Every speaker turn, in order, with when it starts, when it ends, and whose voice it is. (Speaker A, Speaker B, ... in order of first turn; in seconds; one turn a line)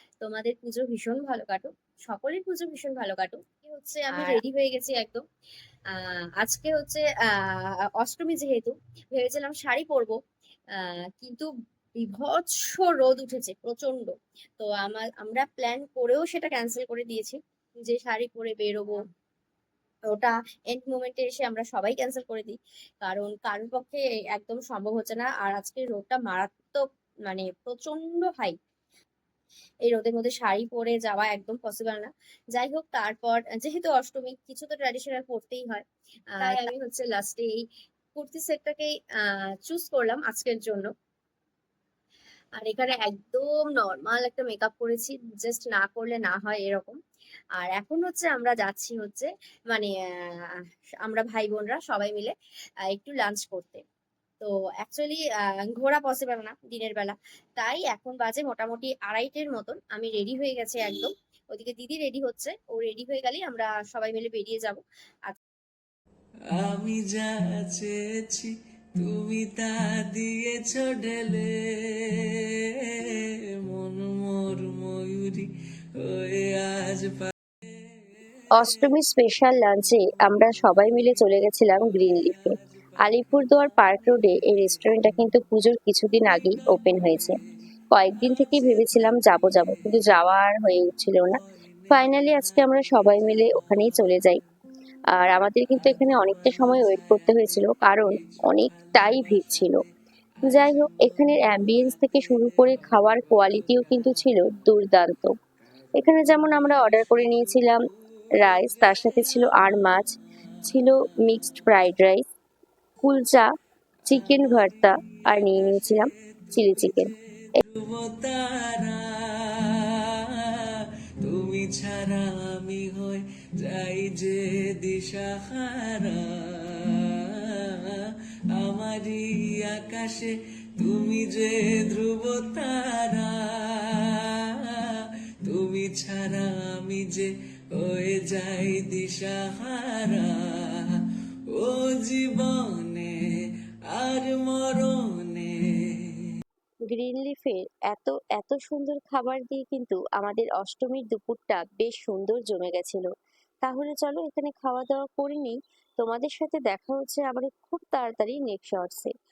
Speaker A: 0.2-5.2
Speaker A: 5.9-10.2
Speaker A: 10.8-19.0
Speaker A: 20.1-28.6
Speaker A: 29.9-35.9
Speaker A: 36.4-40.9
Speaker B: 36.4-36.7
Speaker A: 42.6-47.0
Speaker A: 47.6-49.9
Speaker A: 51.0-52.4
Speaker A: 52.9-53.8
Speaker A: 54.4-65.4
Speaker C: 66.5-77.3
Speaker B: 78.6-87.4
Speaker C: 80.8-81.1
Speaker C: 81.8-84.7
Speaker C: 86.3-87.4
Speaker B: 87.9-91.4
Speaker C: 88.2-90.1
Speaker C: 91.3-94.3
Speaker B: 91.9-94.4
Speaker B: 95.2-99.8
Speaker C: 95.8-99.8
Speaker C: 100.4-104.5
Speaker B: 100.5-105.3
Speaker B: 106.0-107.8
Speaker B: 108.4-110.2
Speaker B: 110.7-112.2
Speaker B: 113.0-113.5
Speaker B: 114.1-117.1
Speaker C: 114.1-141.0
Speaker C: 141.5-143.1
Speaker C: 144.0-145.5
Speaker B: 146.9-153.1
Speaker B: 153.6-159.1